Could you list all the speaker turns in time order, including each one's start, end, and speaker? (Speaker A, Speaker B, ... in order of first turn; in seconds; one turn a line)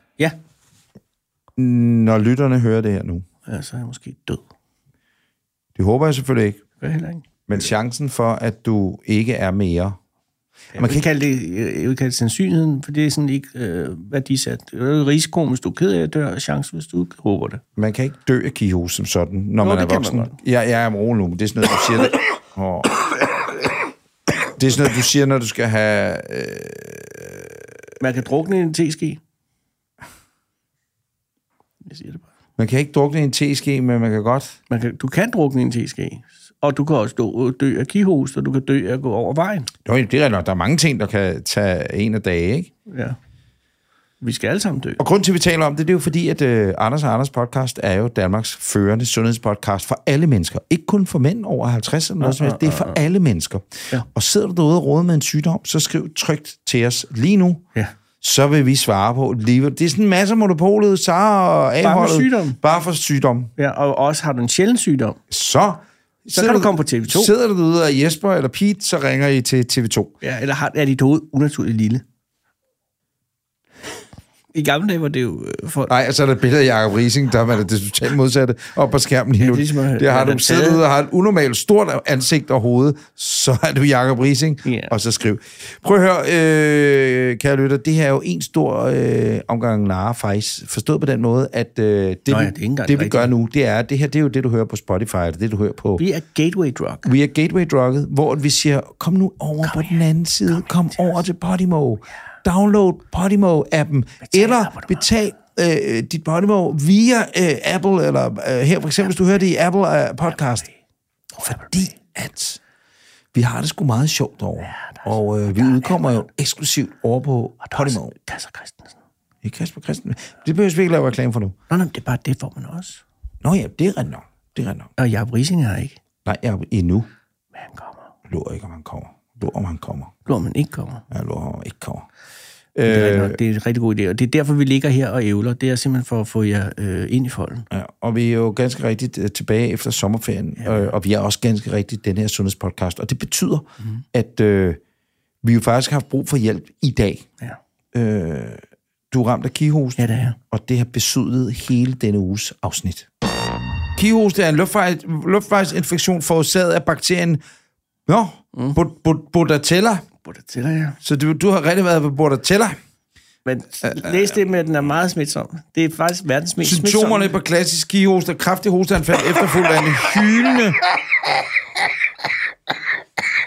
Speaker A: 1.6-3.2
Speaker B: 3.5-4.4
Speaker A: 5.8-6.6
Speaker B: 6.8-7.3
Speaker A: 7.5-9.9
Speaker B: 10.7-17.6
Speaker A: 10.8-11.1
Speaker A: 17.8-23.0
Speaker B: 19.6-20.4
Speaker A: 24.5-27.6
Speaker B: 28.0-29.2
Speaker B: 31.8-32.2
Speaker A: 32.6-34.5
Speaker B: 34.7-39.7
Speaker A: 39.9-42.7
Speaker B: 42.9-43.1
Speaker B: 44.2-45.0
Speaker A: 45.0-57.6
Speaker B: 52.2-53.0
Speaker A: 58.2-63.5
Speaker B: 61.8-62.6
Speaker B: 63.6-65.2
Speaker A: 65.3-70.1
Speaker B: 66.3-67.3
Speaker B: 70.2-72.0
Speaker B: 74.5-75.9
Speaker A: 75.9-96.0
Speaker B: 79.4-80.8
Speaker B: 84.7-84.9
Speaker B: 92.3-93.3
Speaker B: 96.0-97.1
Speaker A: 97.0-110.7
Speaker B: 99.6-101.2
Speaker B: 104.2-105.0
Speaker B: 111.4-111.9
Speaker A: 111.4-112.6
Speaker A: 113.3-118.1
Speaker B: 114.7-116.2
Speaker B: 117.6-119.0
Speaker A: 119.4-121.5
Speaker B: 121.7-123.0
Speaker A: 123.4-124.9
Speaker B: 125.0-126.0
Speaker A: 126.2-127.1
Speaker B: 127.5-128.1
Speaker A: 128.3-130.1
Speaker B: 130.2-131.0
Speaker A: 131.1-132.1
Speaker A: 132.8-133.4
Speaker B: 132.8-137.7
Speaker A: 137.7-144.8
Speaker B: 140.6-140.9
Speaker A: 145.4-147.2
Speaker A: 147.9-153.1
Speaker B: 150.0-150.4
Speaker A: 153.9-157.4
Speaker A: 158.1-160.0
Speaker B: 160.2-161.0
Speaker A: 161.0-162.8
Speaker B: 163.4-167.4
Speaker A: 166.6-170.8